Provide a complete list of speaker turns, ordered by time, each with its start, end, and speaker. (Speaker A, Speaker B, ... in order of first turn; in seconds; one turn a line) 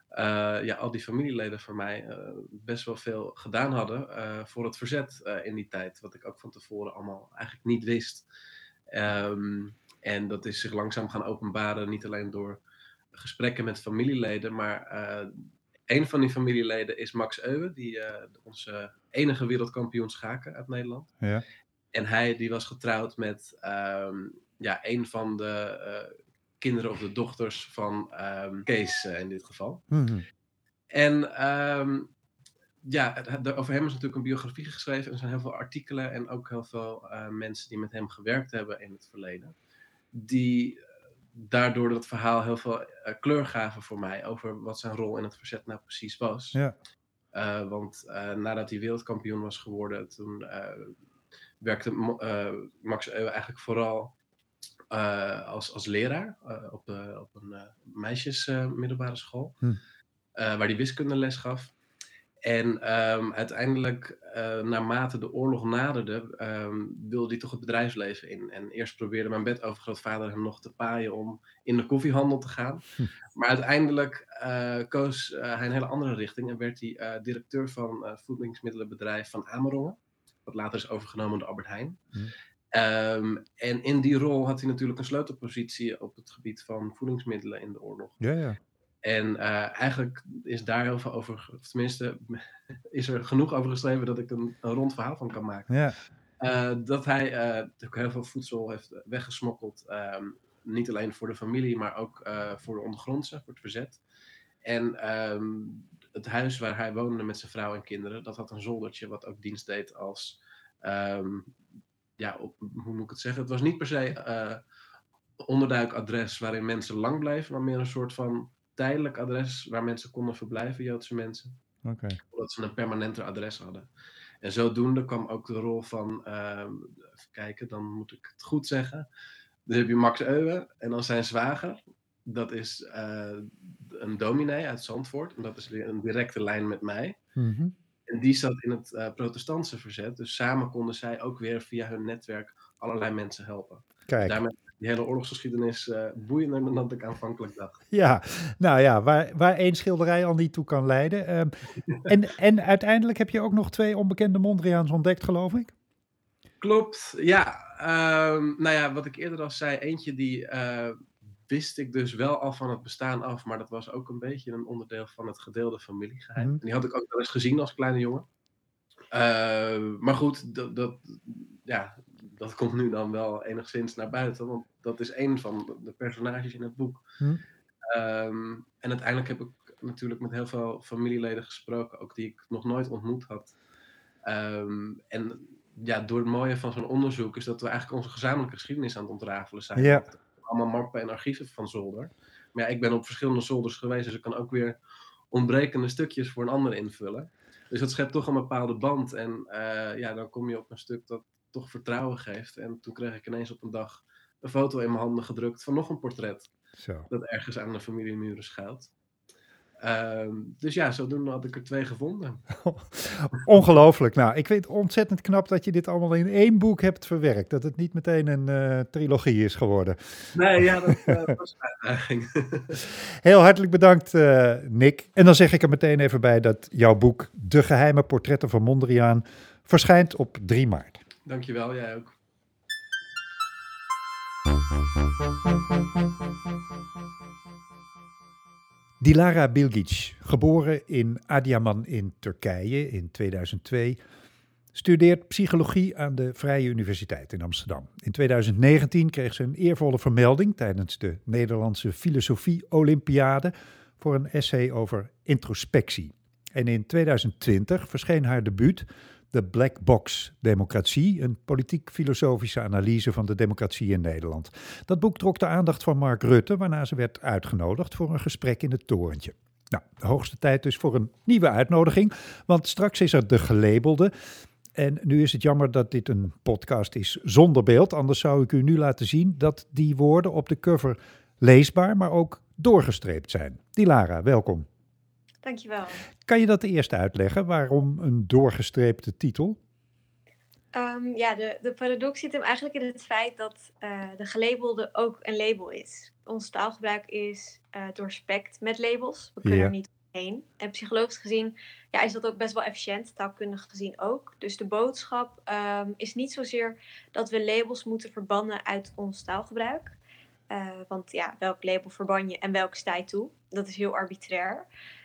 Speaker A: 0.1-8.2
Speaker A: 8.9-12.6
Speaker A: 13.1-15.4
Speaker A: 15.9-21.1
Speaker A: 21.9-29.8
Speaker B: 29.9-30.2
Speaker A: 30.9-32.1
Speaker A: 32.8-39.5
Speaker A: 40.1-40.8
Speaker A: 41.3-46.6
Speaker A: 47.3-50.9
Speaker A: 51.6-54.1
Speaker A: 54.9-59.6
Speaker A: 60.4-61.7
Speaker A: 62.4-72.8
Speaker A: 73.3-82.0
Speaker A: 82.7-88.2
Speaker B: 88.2-88.6
Speaker A: 89.0-95.8
Speaker B: 95.7-96.0
Speaker A: 96.4-104.0
Speaker A: 104.6-111.5
Speaker A: 112.2-114.6
Speaker A: 115.4-121.5
Speaker B: 121.8-122.2
Speaker A: 122.3-123.9
Speaker A: 124.4-129.1
Speaker A: 129.7-137.2
Speaker B: 137.4-137.7
Speaker A: 138.1-147.8
Speaker B: 144.1-144.4
Speaker B: 147.9-151.5
Speaker B: 152.0-155.7
Speaker A: 156.6-168.2
Speaker A: 169.1-177.0
Speaker A: 177.8-183.5
Speaker A: 184.2-194.8
Speaker B: 189.8-190.1
Speaker A: 195.3-206.5
Speaker B: 206.8-207.1
Speaker A: 207.1-208.9
Speaker A: 209.8-212.5
Speaker B: 212.6-221.1
Speaker A: 220.3-222.8
Speaker B: 223.2-231.0
Speaker A: 231.2-232.1
Speaker B: 239.0-244.0
Speaker B: 244.7-274.1
Speaker B: 274.7-284.6
Speaker C: 285.4-286.0
Speaker B: 286.2-289.6
Speaker C: 290.7-309.9
Speaker B: 299.4-299.7
Speaker C: 310.5-314.7